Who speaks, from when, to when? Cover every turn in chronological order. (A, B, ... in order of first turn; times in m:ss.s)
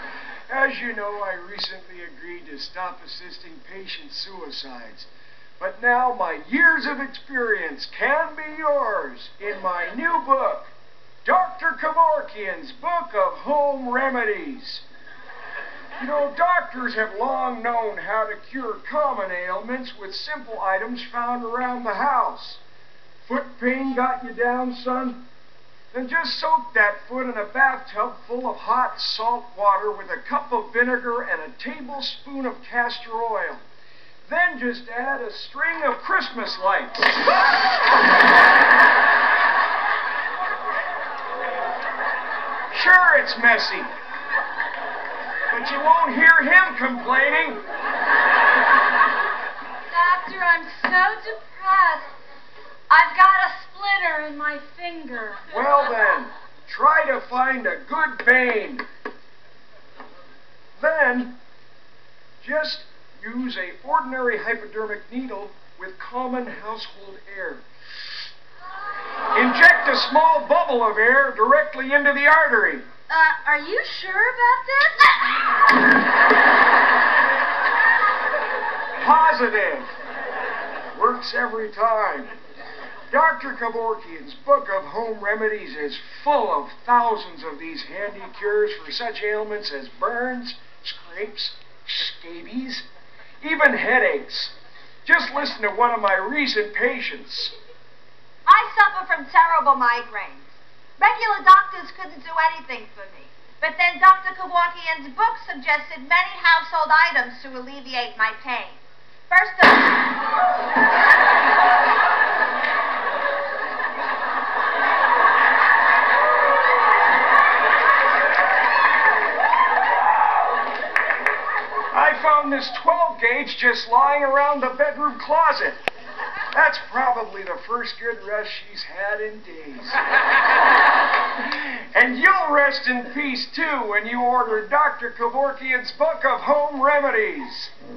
0:00.5-0:05.1 A
0:05.6-0:10.7 A
0:11.2-0:14.8 A
0:16.0-0:22.6 A
0:23.2-0:25.2 A
0:25.9-0:33.6 A
0:34.2-0:37.3 A
0:42.7-0:43.9 A
0:45.5-0:47.6 A
0:49.9-0:52.1 B
0:52.9-0:55.4 B
0:55.5-0:58.8 A
1:00.8-1:01.3 A
1:02.4-1:07.6 A
1:09.3-1:12.8 A
1:13.1-1:15.6 C
1:19.0-1:19.9 A
1:20.9-1:22.3 A
1:23.1-1:32.8 A
1:33.4-1:34.5 A
1:35.0-1:37.5 A
1:38.4-1:50.1 C
2:01.9-2:05.8 A
2:06.5-2:10.0 A
2:11.4-2:17.7 A